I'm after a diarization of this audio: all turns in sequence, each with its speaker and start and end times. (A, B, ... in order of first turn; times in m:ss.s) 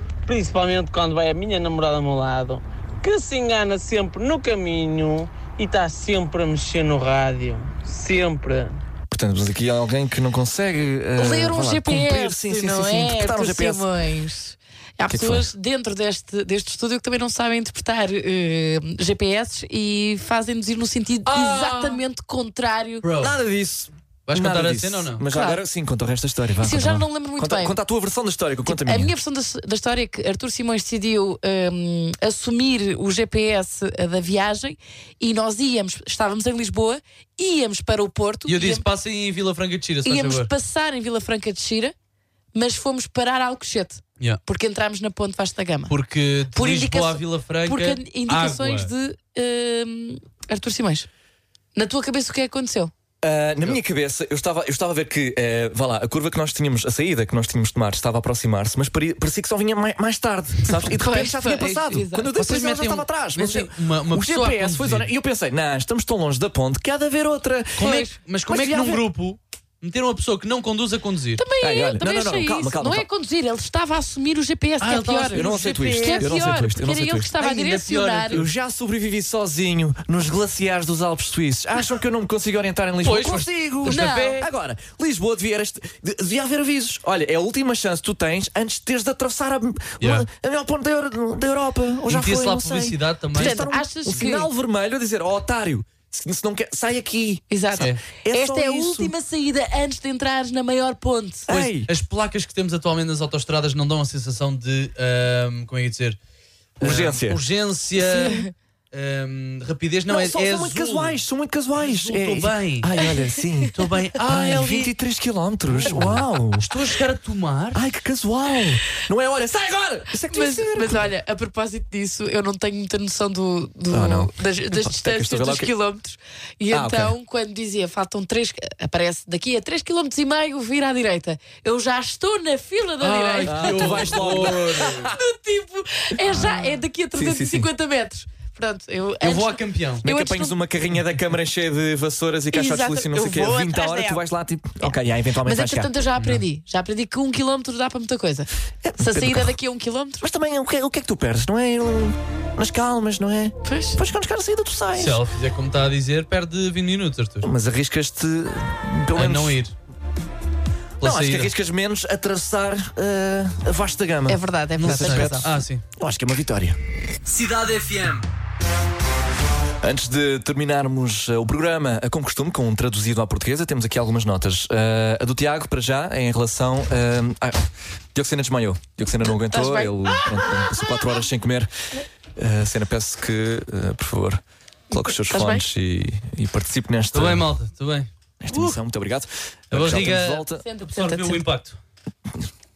0:00.2-0:08.8 A
0:09.1-0:13.9 B
0:11.2-0:23.0 C
0:15.1-0:15.5 B
0:21.2-0:22.0 D
0:23.0-0:23.4 D
0:23.2-0:29.1 B
0:24.3-0:25.2 D
0:25.3-0:25.6 C
0:26.6-0:27.8 C
0:28.6-0:38.8 C
0:38.5-0:40.5 D
0:40.0-0:41.9 C
0:42.5-0:45.9 C
0:45.9-0:48.9 D
0:46.5-0:51.1 C
0:51.7-0:52.9 C
0:53.2-1:09.0 B
1:00.9-1:02.3 C
1:02.3-1:05.1 D
1:07.8-1:11.4 D
1:07.8-1:08.1 C
1:11.4-1:18.4 C
1:11.6-1:13.0 B
1:14.8-1:16.3 D
1:15.3-1:17.3 B
1:17.4-1:18.5 D
1:18.3-1:39.1 B
1:23.0-1:24.4 D
1:23.8-1:24.4 C
1:30.0-1:30.3 D
1:32.1-1:33.6 D
1:33.4-1:34.5 C
1:37.5-1:41.5 C
1:41.5-1:41.9 B
1:41.5-1:46.2 D
1:46.8-1:47.4 B
1:46.8-1:51.2 D
1:48.0-1:48.5 C
1:50.1-1:56.7 B
1:51.8-1:52.9 D
1:53.7-1:54.9 D
1:55.7-1:57.8 D
1:57.7-2:01.1 B
2:00.3-2:20.6 C
2:03.9-2:05.7 B
2:06.7-2:07.1 B
2:13.0-2:15.1 D
2:13.4-2:15.2 B
2:17.1-2:17.7 B
2:19.2-2:20.0 D
2:20.0-2:25.9 B
2:22.5-2:24.2 C
2:25.4-2:30.2 C
2:26.2-2:26.4 D
2:28.8-2:29.6 B
2:30.2-2:35.2 B
2:33.6-2:34.0 C
2:35.0-2:37.5 D
2:37.4-2:39.6 B
2:39.1-2:39.7 D
2:41.0-2:41.5 D
2:41.0-2:46.8 B
2:44.3-2:45.5 C
2:44.8-2:45.8 D
2:47.3-2:48.2 D
2:49.8-3:01.7 B
2:59.3-3:00.9 C
3:02.4-3:07.5 B
3:04.9-3:05.6 C
3:07.1-3:08.8 D
3:08.4-3:10.6 B
3:09.7-3:11.8 D
3:10.6-3:11.4 C